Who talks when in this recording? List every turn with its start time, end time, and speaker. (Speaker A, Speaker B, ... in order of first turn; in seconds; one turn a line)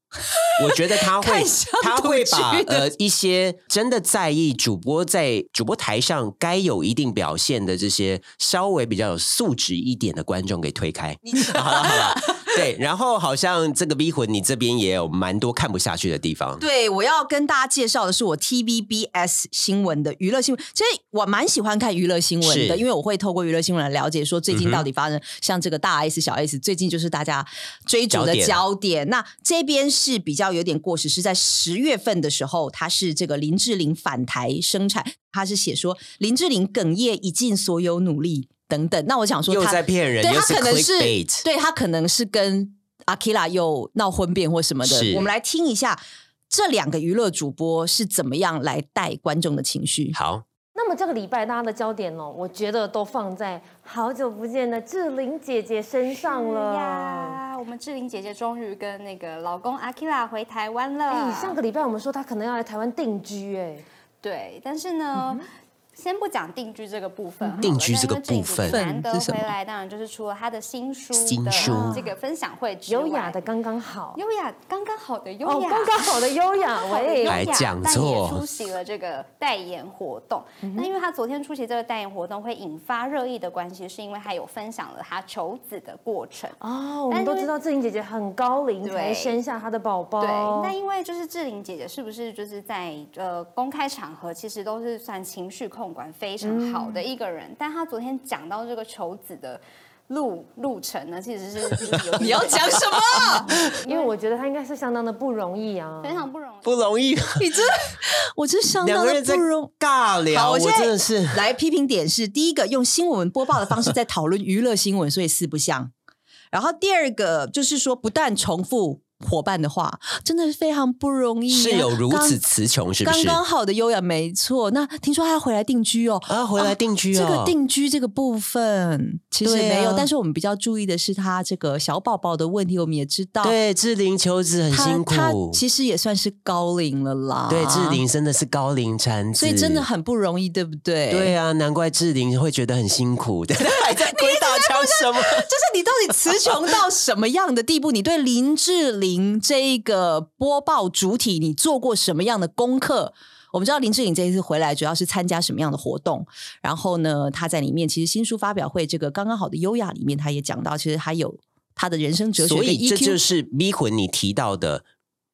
Speaker A: 0.6-16.6
Speaker B: 1.0-2.9
Speaker B: 11.2-12.5
Speaker B: 16.6-50.2
Speaker A: 22.4-22.8
Speaker A: 24.5-24.8
Speaker A: 28.1-28.6
Speaker A: 39.5-41.4
Speaker A: 44.8-45.3
Speaker A: 50.1-50.4
Speaker C: 50.7-57.4
Speaker D: 56.1-61.6
Speaker C: 61.1-63.8
Speaker D: 64.2-73.5
Speaker A: 67.6-68.8
Speaker B: 68.7-69.5
Speaker A: 71.1-72.0
Speaker C: 71.6-72.1
Speaker C: 72.9-74.2
Speaker D: 74.1-87.5
Speaker C: 75.4-77.6
Speaker A: 77.3-78.4
Speaker C: 80.6-80.9
Speaker C: 86.6-90.7
Speaker D: 88.8-89.4
Speaker D: 90.2-104.1
Speaker C: 96.4-97.0
Speaker B: 102.2-103.5
Speaker C: 103.8-106.3
Speaker D: 106.0-106.9
Speaker A: 106.6-107.5
Speaker B: 107.4-109.7
Speaker A: 108.8-111.4
Speaker B: 110.3-115.9
Speaker B: 116.5-122.4
Speaker A: 121.5-123.4
Speaker B: 123.0-133.6
Speaker A: 126.3-127.5
Speaker A: 129.4-130.1
Speaker A: 133.4-135.6
Speaker B: 134.7-138.0
Speaker A: 137.5-139.8
Speaker B: 139.4-141.3
Speaker A: 141.1-145.5
Speaker B: 143.6-163.2
Speaker A: 162.4-164.8